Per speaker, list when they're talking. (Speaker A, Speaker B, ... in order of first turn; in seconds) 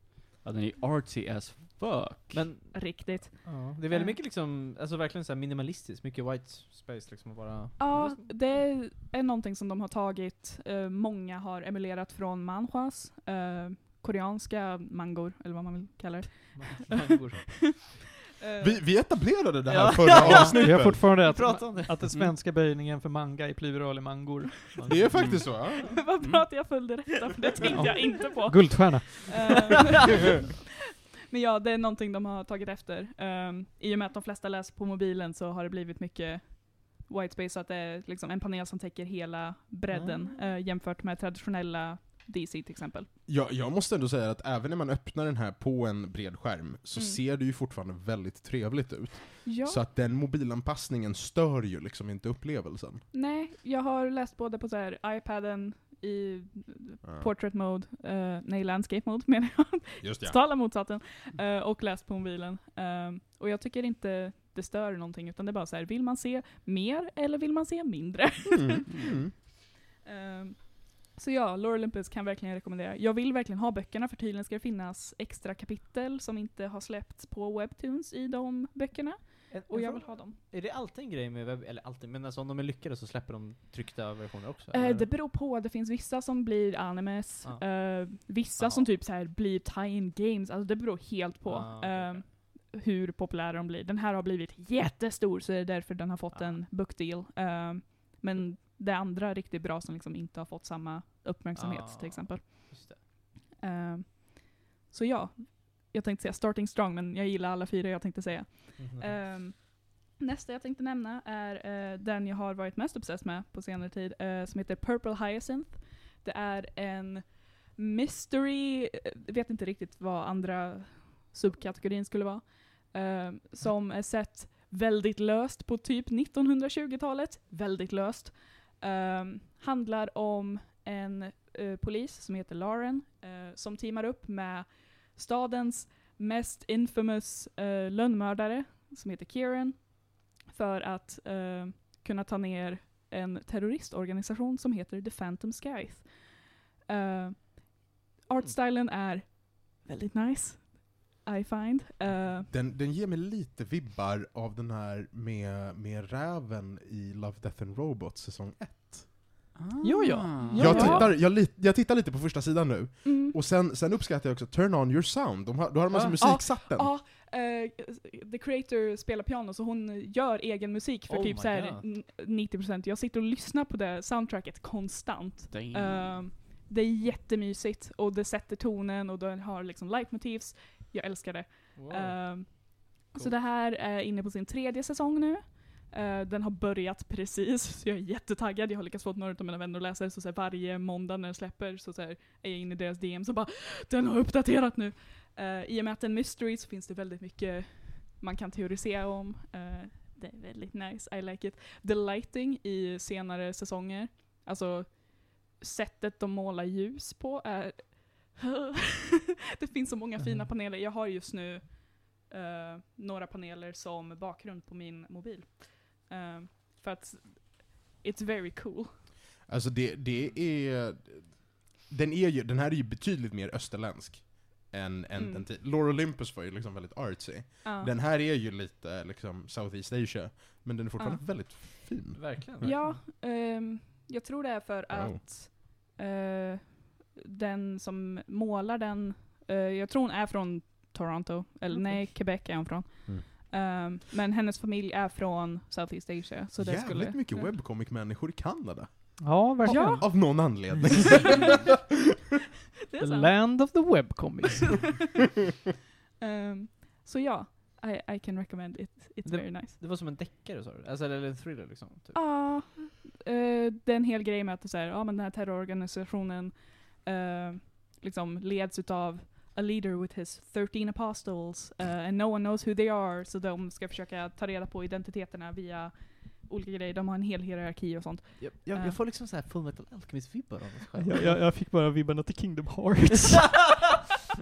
Speaker A: 0.4-2.6, 25.1-25.5, 159.6-160.9, 175.5-176.2
Speaker B: 2.3-8.3, 16.5-17.4, 19.7-22.0, 24.7-25.5, 39.9-40.2, 79.5-85.1, 87.4-88.9, 91.5-92.3, 96.3-96.6, 101.5-103.0, 108.8-109.2, 171.1-171.8, 181.7-183.3, 232.1-232.9, 259.2-262.2, 278.4-281.4
Speaker C: 2.7-4.2, 7.8-18.8, 25.8-43.1, 49.4-49.8, 53.1-69.2, 69.9-80.4, 84.7-102.7, 103.6-152.5, 160.6-161.0, 163.0-163.4, 166.2-218.9, 225.1-225.4, 227.6-227.9, 231.0-231.7, 232.6-247.5, 249.6-250.6, 252.9-253.6, 256.2-259.8, 262.1-279.0
Speaker D: 18.6-21.1, 24.9-26.0, 43.3-53.0, 60.0-60.4, 68.5-69.3, 152.5-159.1, 160.5-166.9, 219.4-232.7, 234.9-235.2, 246.6-251.8
Speaker E: 20.2-24.7, 27.7-29.3, 159.8-161.1, 249.2-250.1, 253.0-254.9, 281.0-283.9